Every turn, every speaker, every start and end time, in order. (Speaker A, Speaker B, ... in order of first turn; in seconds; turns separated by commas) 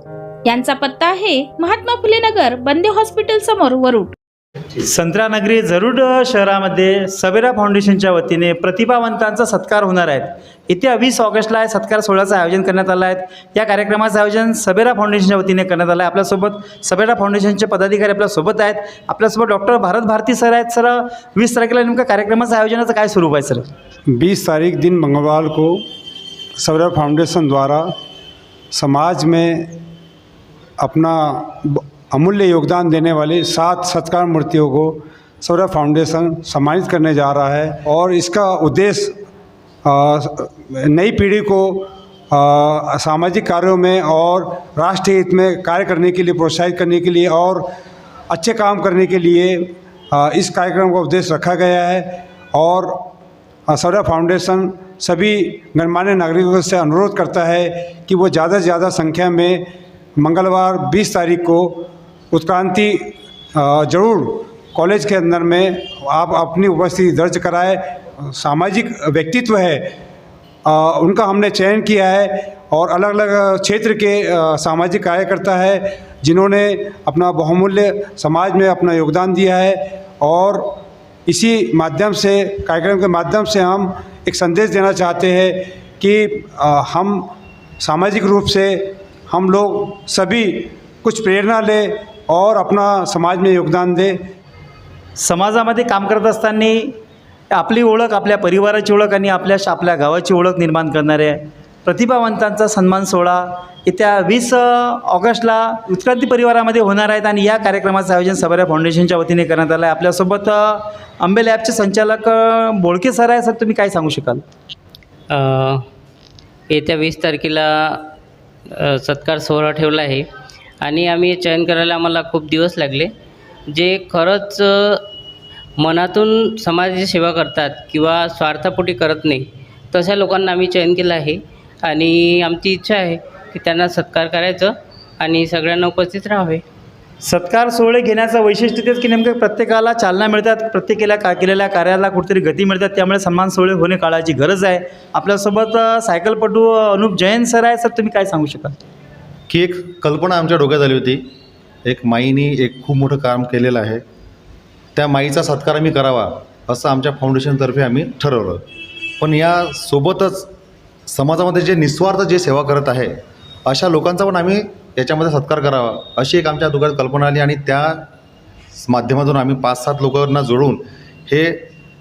Speaker A: 0.5-4.2, Speaker B: 4.8-23.7, Speaker C: 24.1-25.8, Speaker C: 26.6-27.9, Speaker C: 28.7-29.7, Speaker C: 30.8-39.2, Speaker C: 39.8-47.7, Speaker C: 48.3-53.1, Speaker C: 53.7-69.9, Speaker C: 70.7-87.3, Speaker C: 87.8-94.2, Speaker B: 95.2-96.9, Speaker B: 97.5-114.4, Speaker D: 115.3-115.8, Speaker D: 116.7-118.1, Speaker D: 118.7-120.2, Speaker D: 120.8-123.1, Speaker D: 123.7-125.0, Speaker D: 125.8-136.6, Speaker B: 137.2-148.8, Speaker E: 149.5-151.3, Speaker E: 151.8-154.0, Speaker E: 154.9-158.7, Speaker E: 159.2-160.5, Speaker E: 161.1-168.1, Speaker E: 168.7-171.7